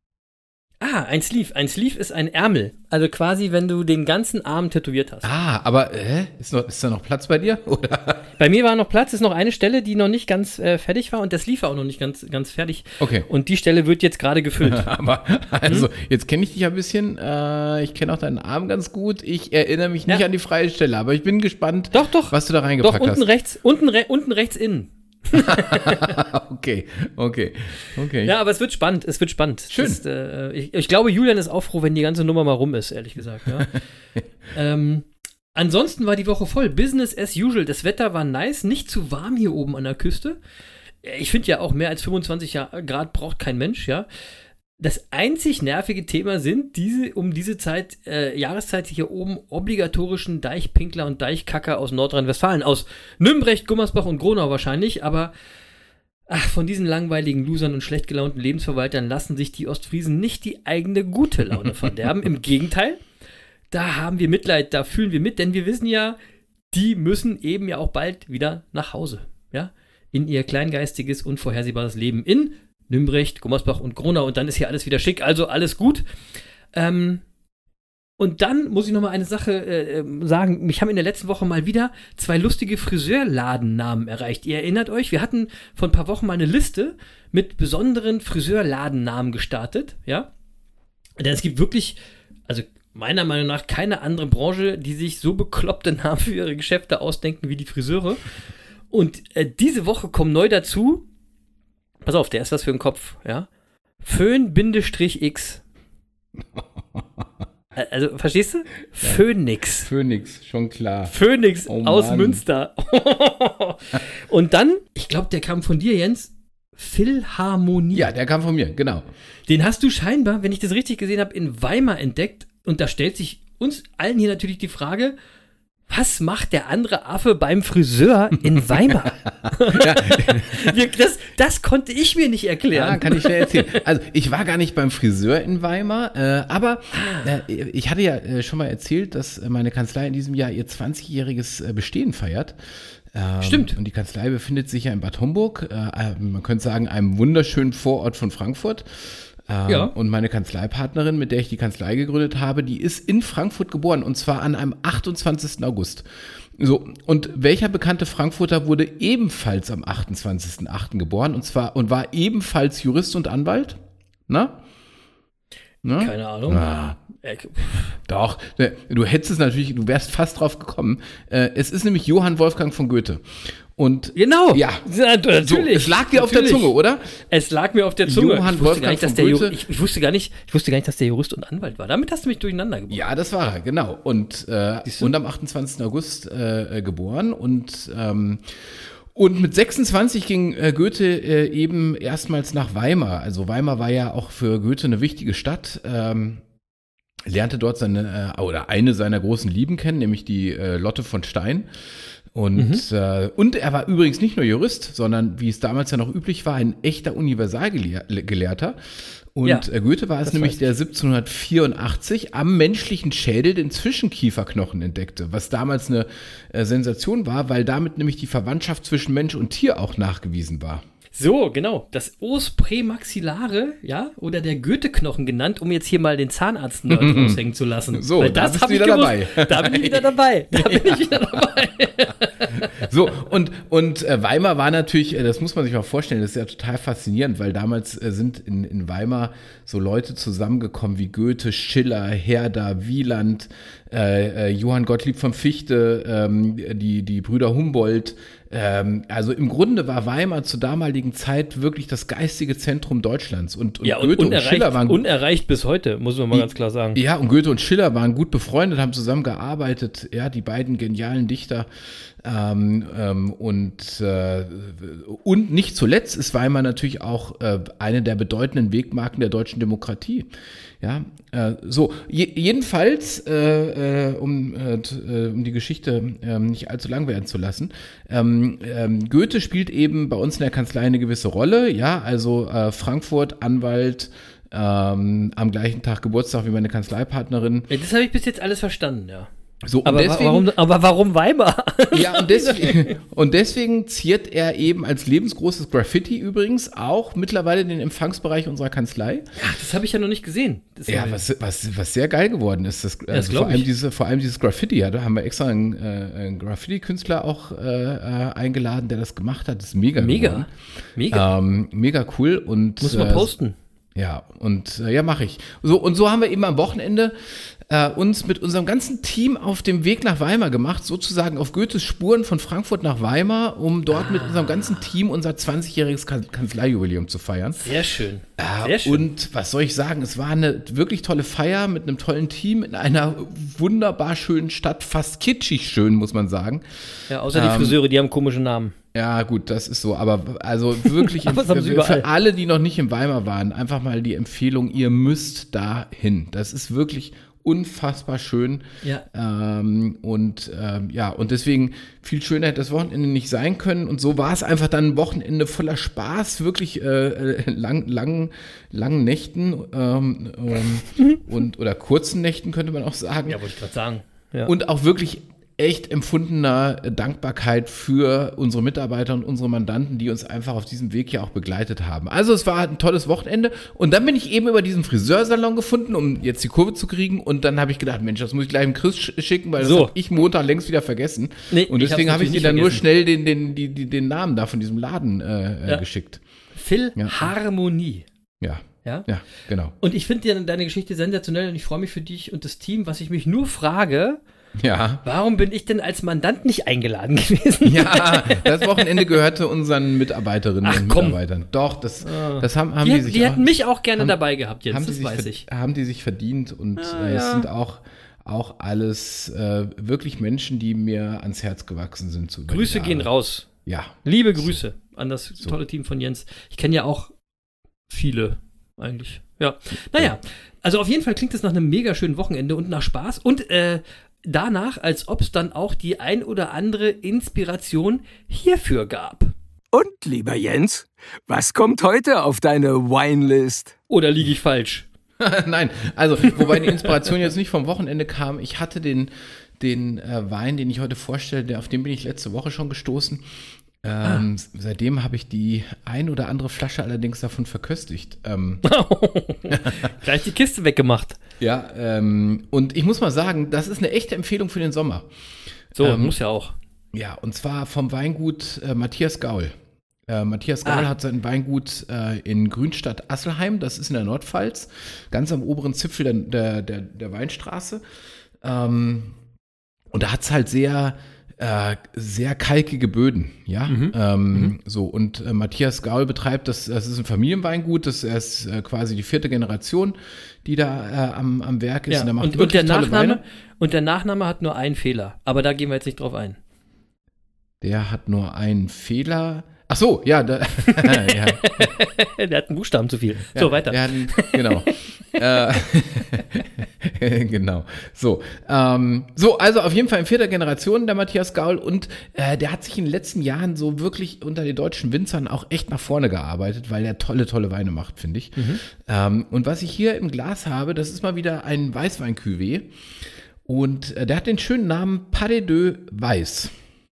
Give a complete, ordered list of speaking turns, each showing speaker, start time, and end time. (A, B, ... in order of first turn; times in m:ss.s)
0:00.8-0:05.3 A
0:05.2-0:08.2 B
0:08.4-0:14.9 A
0:13.0-0:13.3 B
0:14.6-0:23.2 B
0:21.9-0:26.2 A
0:25.3-0:28.4 B
0:28.2-0:33.8 A
0:29.7-0:30.0 B
0:34.5-0:40.4 A
0:41.0-0:44.1 A
0:44.8-0:55.3 A
0:56.3-1:03.0 A
1:01.6-1:02.0 B
1:03.7-1:06.2 A
1:06.7-1:16.0 A
1:16.8-1:17.2 A
1:18.2-1:30.3 A
1:31.2-1:32.0 A
1:32.5-1:38.2 A
1:38.9-1:41.0 A
1:42.0-1:43.5 A
1:44.0-1:45.6 A
1:46.5-1:47.2 B
1:47.8-1:49.9 A
1:49.8-1:51.1 B
1:51.1-1:58.1 A
1:51.7-1:52.4 B
1:57.9-1:59.0 B
1:59.5-2:05.1 A
2:05.9-2:13.7 A
2:09.7-2:10.8 B
2:12.7-2:22.6 B
2:16.9-2:17.4 A
2:23.1-2:36.0 B
2:23.4-2:23.8 A
2:29.7-2:29.9 A
2:36.6-2:44.6 B
2:45.8-2:47.0 B
2:46.0-2:48.0 A
2:48.1-2:54.8 B
2:54.1-2:56.7 A
2:55.4-2:57.1 B
2:57.3-3:03.0 A
2:58.0-2:59.6 B
3:02.9-3:16.4 B
3:04.8-3:05.1 A
3:17.2-3:21.7 B
3:22.3-3:40.8 B
3:22.5-3:22.8 A
3:30.2-3:30.6 A
3:41.1-3:52.8 A
3:46.9-3:47.4 B
3:47.9-3:51.5 B
3:52.5-4:15.0 B
4:13.8-4:17.0 A
4:16.3-4:21.7 B
4:22.2-4:30.3 B
4:30.8-4:47.7 B
4:47.7-4:49.3 A
4:49.6-4:50.5 B
4:49.8-4:53.0 A
4:51.9-4:59.3 B
4:59.4-5:01.2 A
5:00.9-5:10.5 B
5:03.1-5:03.7 A
5:10.0-5:11.2 A
5:11.1-5:13.3 B
5:12.8-5:13.5 A
5:14.0-5:27.7 B
5:23.9-5:24.8 A
5:27.6-5:29.0 A
5:28.4-5:36.6 B
5:37.1-5:38.8 A
5:37.3-5:37.8 B
5:38.9-6:03.4 B
5:40.9-5:42.1 A
6:03.2-6:04.5 A
6:04.4-6:26.2 B
6:19.6-6:19.9 A
6:21.5-6:22.8 A
6:26.5-6:28.1 A
6:27.0-6:27.2 B
6:28.4-6:29.7 B
6:29.8-6:34.2 A
6:34.6-6:35.0 B
6:35.0-6:39.1 A
6:37.6-6:53.1 B
6:40.6-6:41.2 A
6:42.0-6:45.4 A
6:46.8-6:47.5 A
6:52.5-6:53.5 A
6:53.6-6:54.6 B
6:54.0-6:57.1 A
6:57.9-7:09.3 A
7:09.7-7:13.8 C
7:13.9-7:14.9 A
7:15.2-7:23.2 B
7:23.8-7:28.6 B
7:28.6-7:31.2 A
7:31.4-7:35.1 B
7:35.8-7:36.1 B
7:35.8-7:36.6 A
7:36.9-7:39.5 B
7:40.1-7:47.8 B
7:48.4-7:49.2 B
7:49.9-8:03.2 B
7:53.7-7:54.5 A
8:01.9-8:06.4 A
8:07.6-8:11.7 B
8:10.7-8:15.6 A
8:13.3-8:32.7 B
8:28.4-8:28.6 A
8:33.4-8:36.5 B